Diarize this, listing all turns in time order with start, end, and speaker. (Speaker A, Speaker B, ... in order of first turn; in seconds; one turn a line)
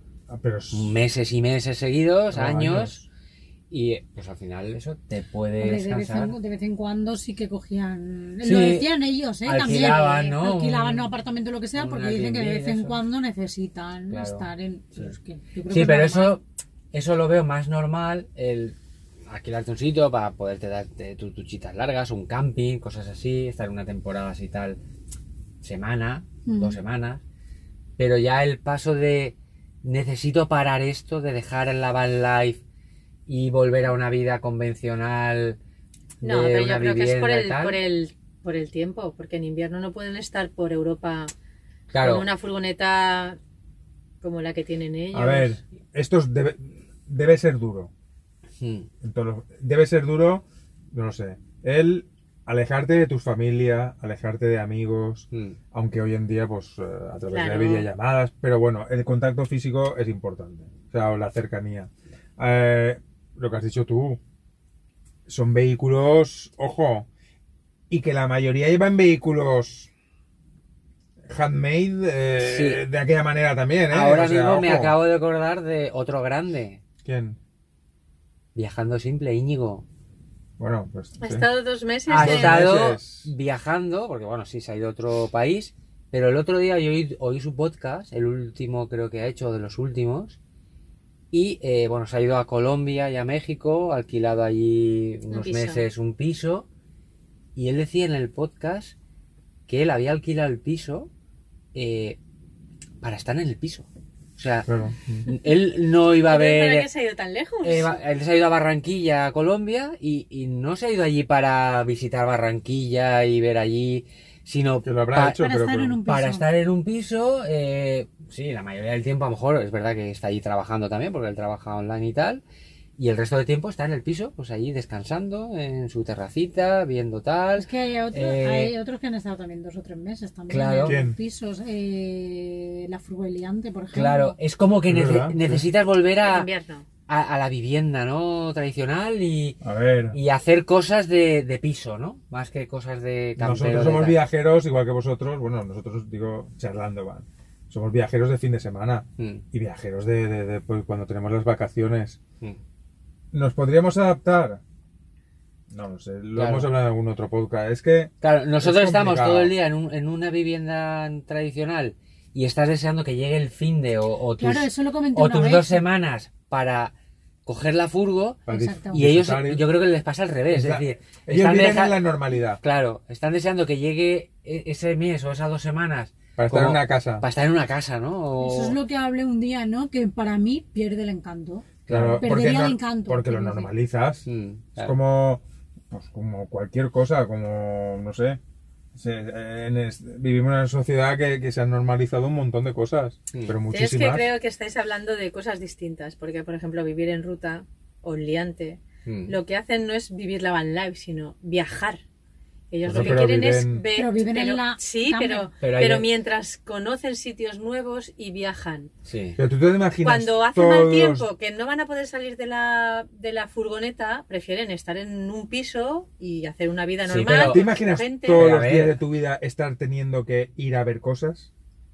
Speaker A: 0.3-0.9
Speaker B: 0.7-3.0
Speaker A: 2.3-3.0
Speaker B: 3.7-6.4
Speaker C: 5.6-16.4
Speaker B: 8.4-8.9
Speaker B: 9.4-11.1
Speaker B: 11.8-13.0
Speaker B: 14.1-15.1
Speaker B: 15.7-18.8
Speaker B: 19.3-24.8
Speaker B: 25.6-27.2
Speaker C: 26.5-26.8
Speaker B: 28.0-32.6
Speaker B: 33.3-35.6
Speaker B: 36.2-37.8
Speaker D: 36.2-41.3
Speaker B: 41.9-42.3
Speaker D: 42.0-43.4
Speaker D: 44.2-45.6
Speaker A: 45.1-47.9
Speaker B: 48.6-48.9
Speaker A: 49.0-64.2
Speaker B: 55.3-55.6
Speaker D: 57.3-57.9
Speaker A: 65.3-67.1
Speaker A: 67.9-69.9
Speaker A: 71.3-75.0
Speaker B: 72.4-72.8
Speaker B: 73.9-76.8
Speaker A: 77.0-77.4
Speaker B: 78.5-79.9
Speaker A: 80.6-81.5
Speaker D: 81.2-82.7
Speaker B: 82.1-90.4
Speaker A: 82.1-83.3
Speaker B: 91.3-96.7
Speaker D: 95.3-95.8
Speaker B: 97.5-99.0
Speaker B: 99.7-101.1
Speaker B: 101.7-102.2
Speaker B: 103.0-104.7
Speaker A: 104.7-105.3
Speaker B: 105.2-106.9
Speaker D: 106.2-108.0
Speaker B: 107.6-115.4
Speaker A: 114.8-116.0
Speaker C: 115.3-116.5
Speaker B: 116.1-122.4
Speaker B: 123.0-128.8
Speaker C: 127.6-134.4
Speaker B: 130.5-131.0
Speaker A: 130.8-131.2
Speaker B: 133.9-136.5
Speaker A: 134.9-135.7
Speaker D: 136.2-136.8
Speaker B: 137.1-144.2
Speaker A: 139.6-140.2
Speaker A: 143.4-152.2
Speaker B: 149.2-149.4
Speaker A: 153.3-154.6
Speaker A: 155.7-159.6
Speaker B: 156.3-156.7
Speaker B: 158.2-166.9
Speaker C: 164.4-165.8
Speaker B: 167.4-178.8
Speaker A: 168.5-169.6
Speaker C: 168.5-169.0
Speaker A: 170.5-172.6
Speaker A: 176.4-177.2
Speaker C: 178.4-183.7
Speaker B: 181.9-182.4
Speaker A: 181.9-184.3
Speaker B: 184.3-185.0
Speaker A: 184.8-188.4
Speaker A: 188.9-194.3
Speaker D: 193.7-202.0
Speaker B: 199.1-199.4
Speaker D: 202.7-208.9
Speaker A: 202.9-203.9
Speaker B: 202.9-203.2
Speaker C: 203.9-205.5
Speaker B: 205.6-206.1
Speaker B: 209.1-209.4
Speaker A: 209.4-211.3
Speaker D: 210.0-218.5
Speaker B: 217.1-217.7
Speaker A: 217.3-221.5
Speaker B: 218.3-219.0